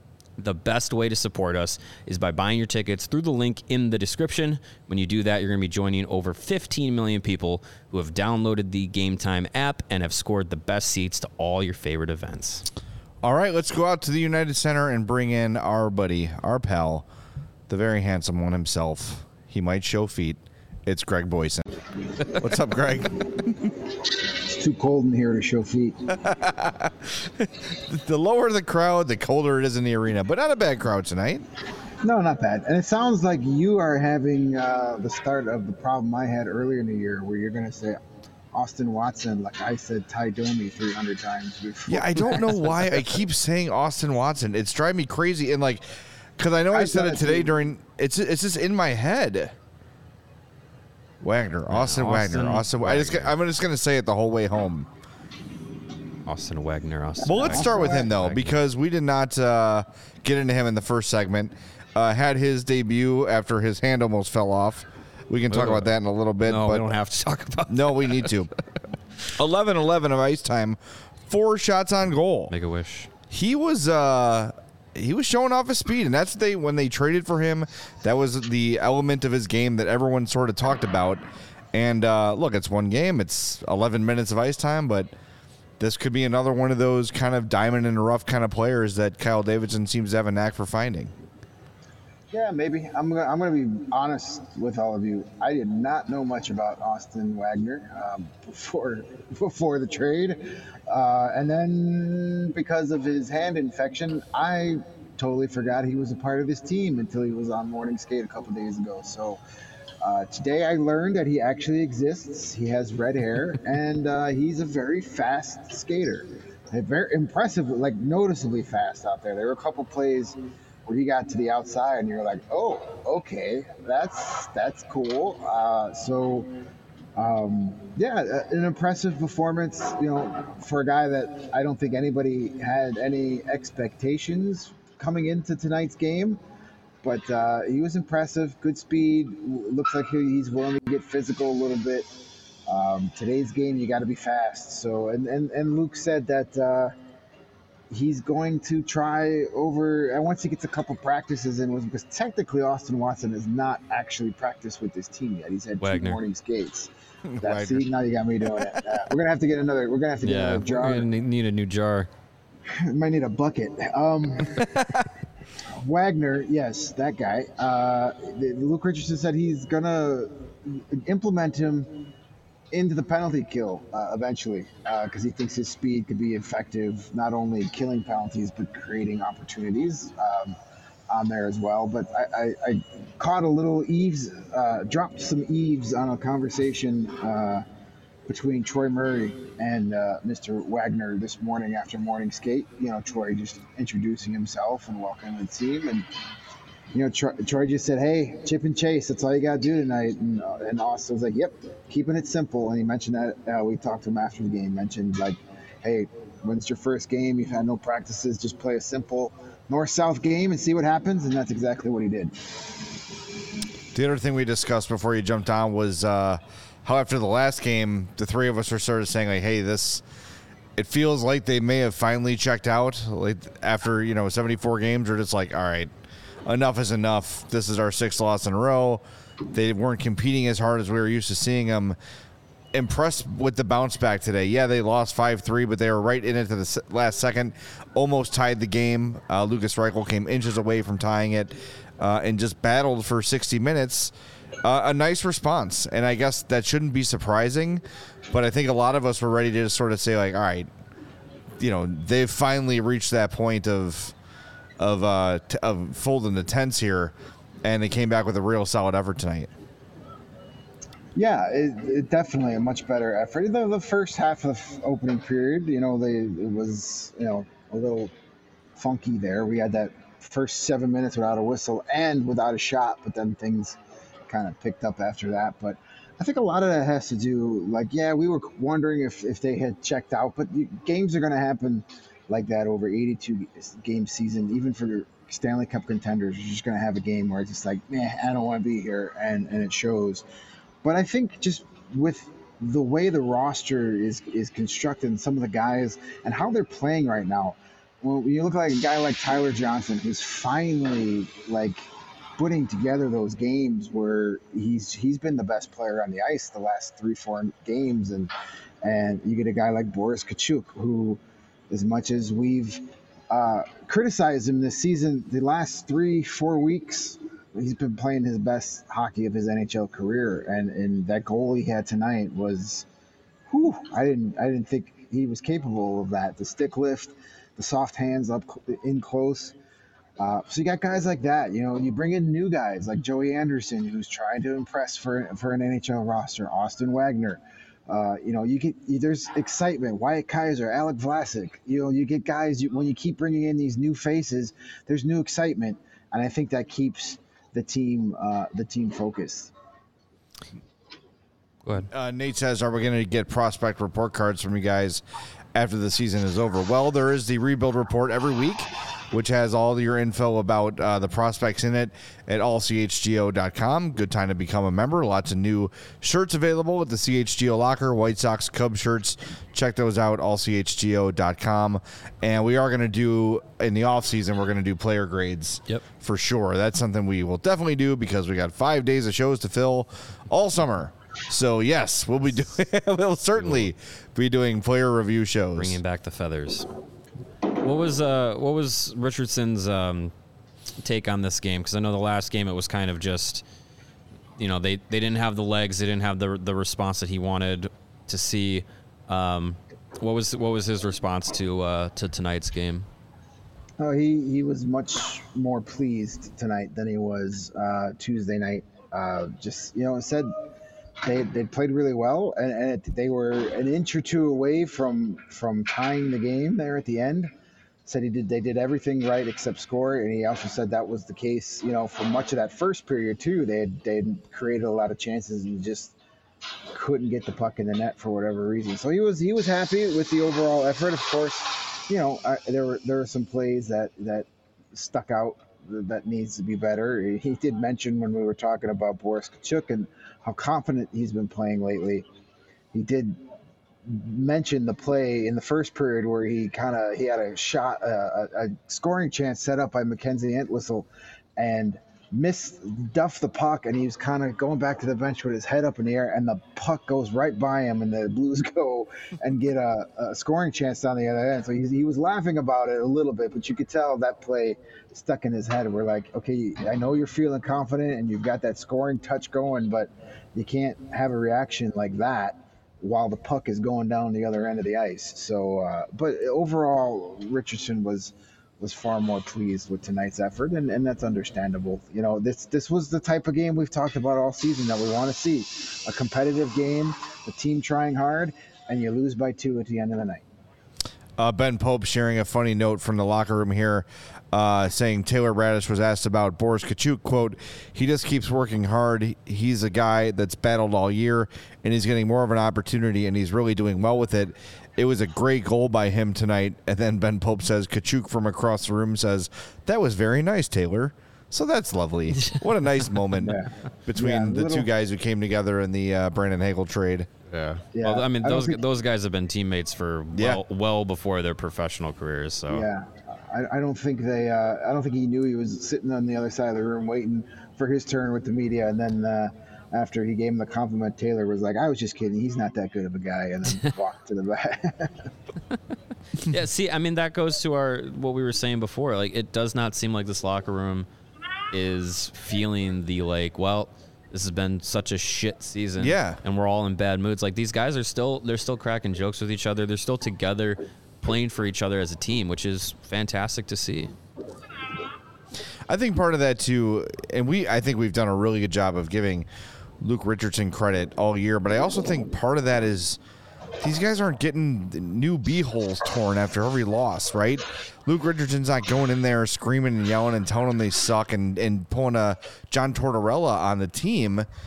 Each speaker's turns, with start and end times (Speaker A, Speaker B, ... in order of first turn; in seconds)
Speaker A: 0.4-12.7, 51.7-53.3, 56.2-58.5, 65.5-68.3, 72.5-73.1, 155.8-156.2, 160.2-162.1, 383.4-383.7, 385.6-386.7, 387.6-390.1, 390.8-393.4, 394.4-402.9, 517.3-522.7, 536.2-540.9, 541.5-553.9
Speaker B: 13.2-17.1, 17.7-21.7, 22.3-23.8, 26.1-31.4, 41.9-49.5, 51.2-54.9, 57.2-66.8, 67.7-68.5, 69.3-72.5, 73.3-85.1, 85.8-91.1, 157.2-157.8, 158.6-158.8, 164.6-165.0, 213.9-220.0, 220.8-225.9, 226.4-232.0, 232.7-244.1, 244.6-250.7, 251.6-254.1, 254.8-259.5, 351.9-355.0, 355.5-385.8, 491.2-517.1, 520.1-520.4, 545.8-546.2, 555.7-559.2, 559.8-563.0, 563.6-574.3
Speaker C: 24.3-26.0, 32.0-38.0, 38.5-42.6, 46.7-47.5, 92.3-109.4, 110.0-126.5, 127.2-136.4, 137.0-146.9, 147.9-161.1, 162.7-165.0, 165.7-172.0, 172.7-180.6, 181.1-187.6, 188.3-196.1, 196.9-212.5, 261.1-268.1, 268.8-290.2, 290.8-301.8, 302.4-322.9, 323.5-329.6, 330.2-349.5, 403.8-410.3, 411.0-417.3, 417.8-425.9, 426.7-442.1, 442.7-443.2, 443.9-490.2, 513.2-514.7, 517.7-518.6, 522.5-535.1